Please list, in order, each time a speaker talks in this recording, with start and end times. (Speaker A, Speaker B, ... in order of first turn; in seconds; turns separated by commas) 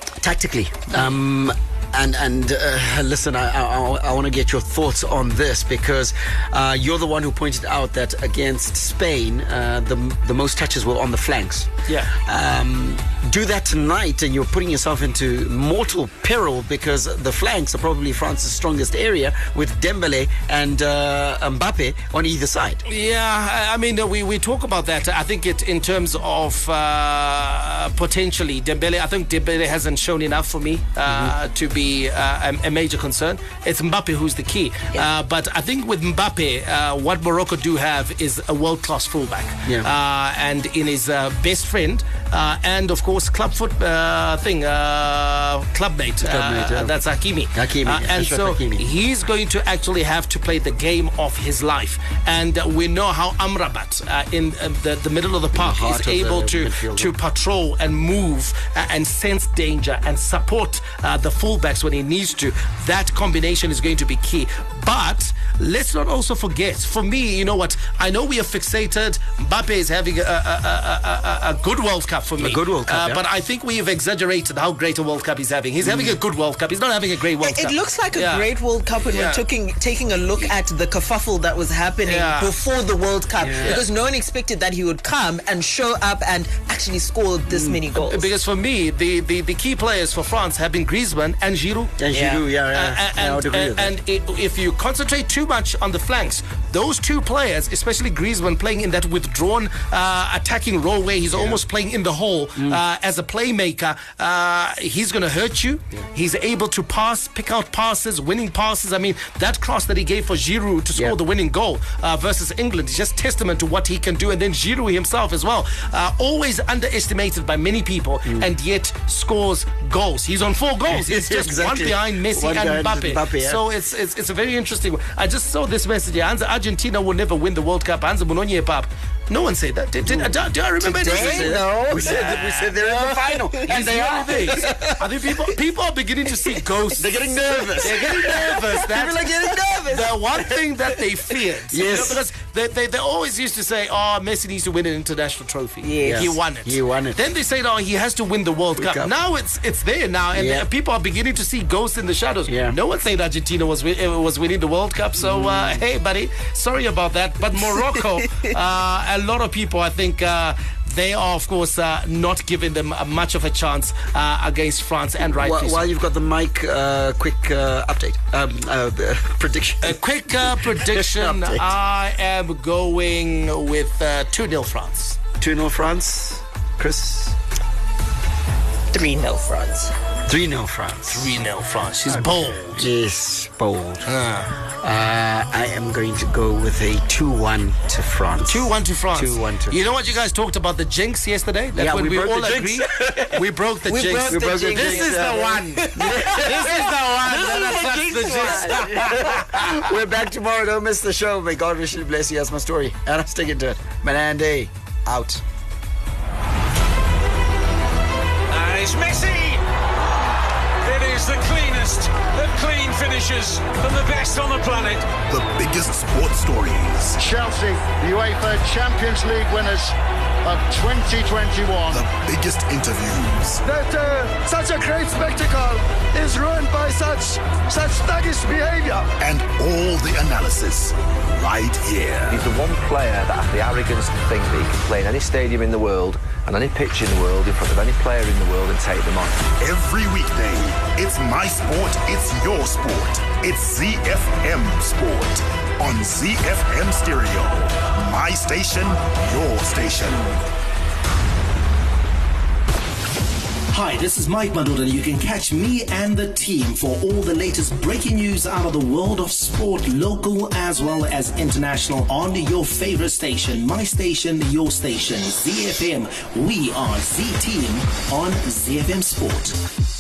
Speaker A: 0.2-11.7, Speaker A: 12.2-22.8, Speaker B: 22.9-78.5, Speaker A: 31.1-31.3, Speaker A: 46.2-47.0, Speaker A: 47.5-48.8, Speaker A: 55.5-57.1, Speaker A: 72.4-73.2, Speaker A: 75.8-76.2, Speaker C: 77.4-88.3, Speaker B: 79.1-79.4, Speaker B: 82.0-82.5, Speaker A: 83.4-83.8, Speaker A: 87.5-87.8, Speaker B: 88.0-92.0, Speaker A: 92.0-93.9, Speaker C: 92.1-92.4, Speaker B: 92.7-139.3, Speaker A: 101.3-101.6, Speaker A: 120.9-123.6, Speaker A: 130.8-135.5, Speaker C: 130.8-132.1, Speaker A: 136.4-142.2, Speaker C: 139.3-139.9, Speaker B: 139.9-165.9, Speaker C: 145.8-146.3, Speaker A: 146.0-147.2, Speaker A: 148.8-149.1, Speaker A: 150.3-150.6, Speaker A: 152.5-152.7, Speaker A: 155.2-155.8, Speaker A: 165.2-171.6, Speaker B: 169.8-175.2, Speaker A: 175.4-177.3, Speaker C: 178.9-179.9, Speaker A: 180.3-181.3, Speaker B: 181.1-182.9, Speaker A: 182.1-184.1, Speaker B: 184.1-184.5, Speaker A: 184.8-189.8, Speaker B: 188.4-199.7, Speaker A: 191.8-193.4, Speaker C: 193.9-196.2, Speaker A: 194.2-205.4, Speaker C: 197.7-199.1, Speaker D: 208.5-209.6, Speaker D: 210.8-215.1, Speaker E: 215.3-217.2, Speaker F: 217.2-222.1, Speaker E: 221.9-223.6, Speaker F: 223.6-229.1, Speaker E: 229.2-232.4, Speaker G: 232.3-239.5, Speaker E: 239.6-250.3, Speaker B: 253.7-269.6